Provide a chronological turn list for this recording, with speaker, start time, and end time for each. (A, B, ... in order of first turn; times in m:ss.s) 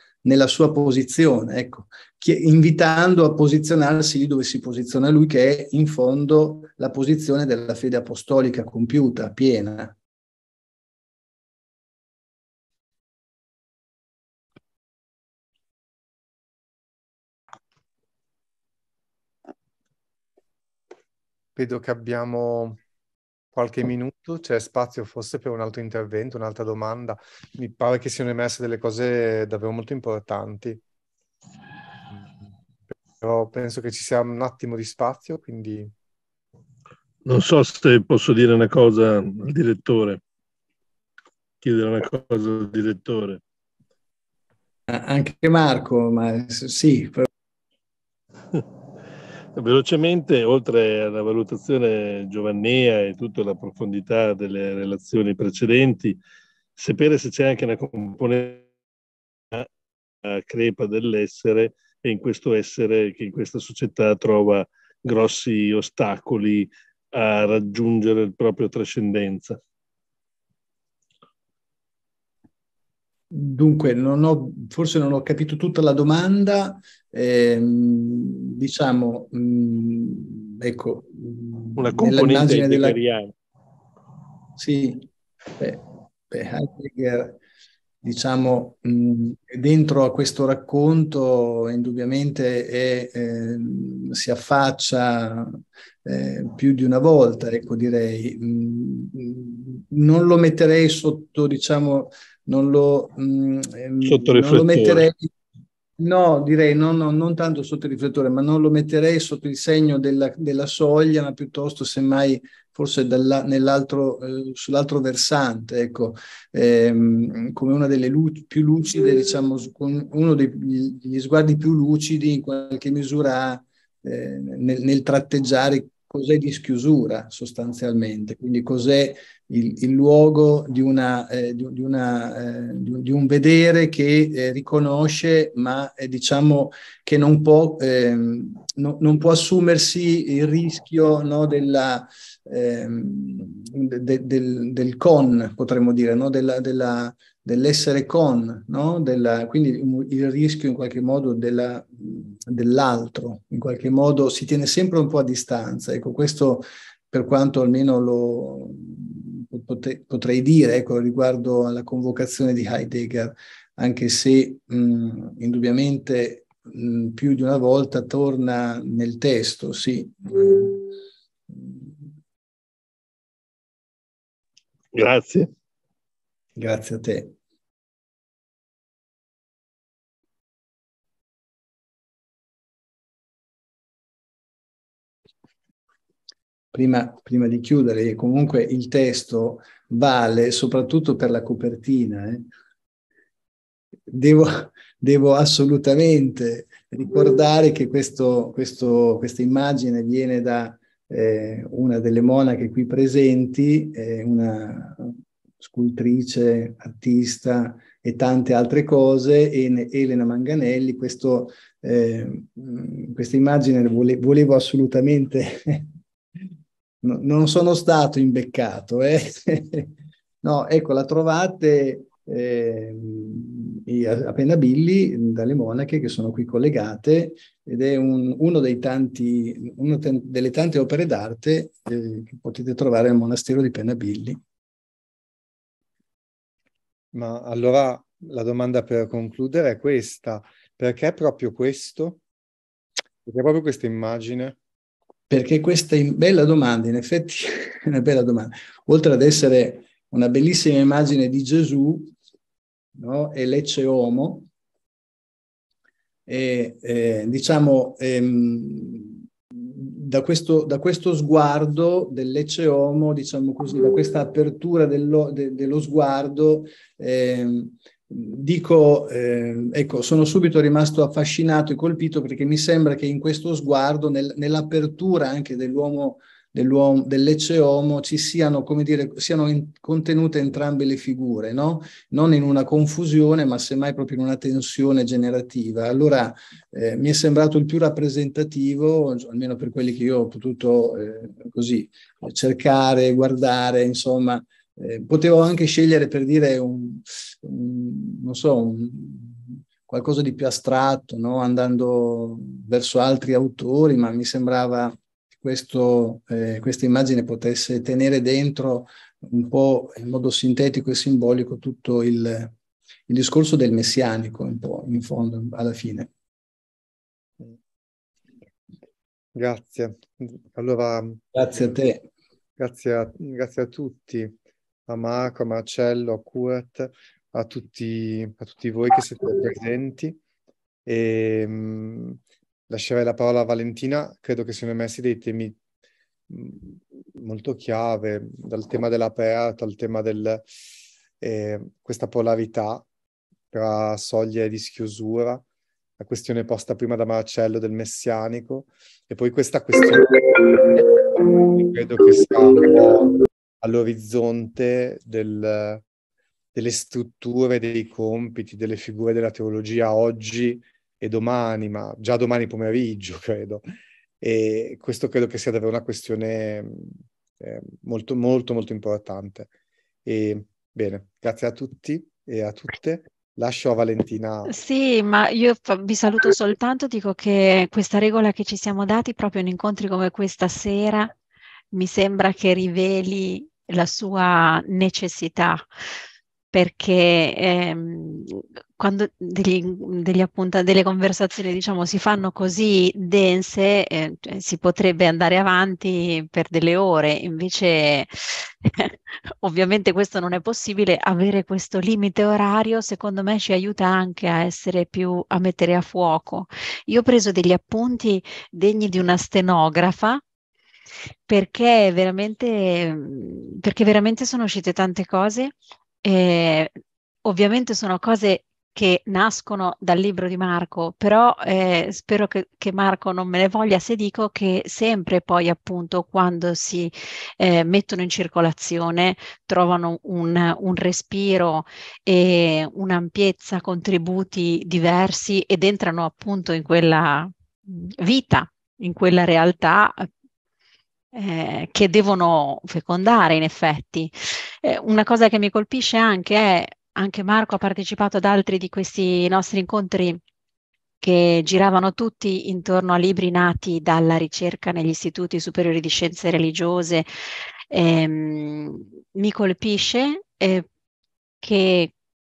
0:00.2-0:09.9 A
0:21.6-0:22.8 B
0:23.5-0:30.8 B
0:33.2-0:35.9 B
0:37.2-0:40.2 C
0:41.6-0:43.4 C
0:44.9-0:47.3 A
0:49.6-0:56.2 C
0:56.8-0:58.7 C
1:00.2-1:09.6 C
1:13.3-1:23.0 A
1:21.8-1:23.3 C
1:24.6-1:25.1 A
1:25.6-1:27.4 A
1:28.0-1:45.3 A
1:44.0-1:45.1 C
1:46.0-2:50.9 A
2:51.5-2:51.8 A
2:54.9-2:55.5 C
2:56.6-2:57.3 A
3:06.7-3:12.5 A
3:14.1-3:35.9 A
3:37.0-3:39.9 A
3:40.4-3:54.4 A
3:57.1-4:02.2 B
4:03.2-4:04.6 B
4:05.3-4:12.1 A
4:13.0-4:14.5 A
4:16.3-5:12.5 A
5:13.1-5:16.1 A
5:19.3-5:21.2 B
5:21.3-5:22.0 A
5:22.6-5:24.3 B
5:24.9-5:30.2 B
5:30.8-5:32.2 B
5:32.7-5:35.6 B
5:36.3-5:40.5 B
5:41.2-5:42.8 B
5:43.5-5:45.4 B
5:46.0-5:55.8 B
5:56.5-6:03.6 B
6:04.2-6:09.5 B
6:10.0-6:14.5 B
6:14.4-6:21.1 D
6:21.7-6:25.6 D
6:26.5-6:50.2 D
6:51.3-6:56.7 D
6:57.2-7:20.1 D
7:21.1-7:30.2 D
7:31.0-7:37.1 D
7:37.7-7:40.6 D
7:41.4-7:41.9 D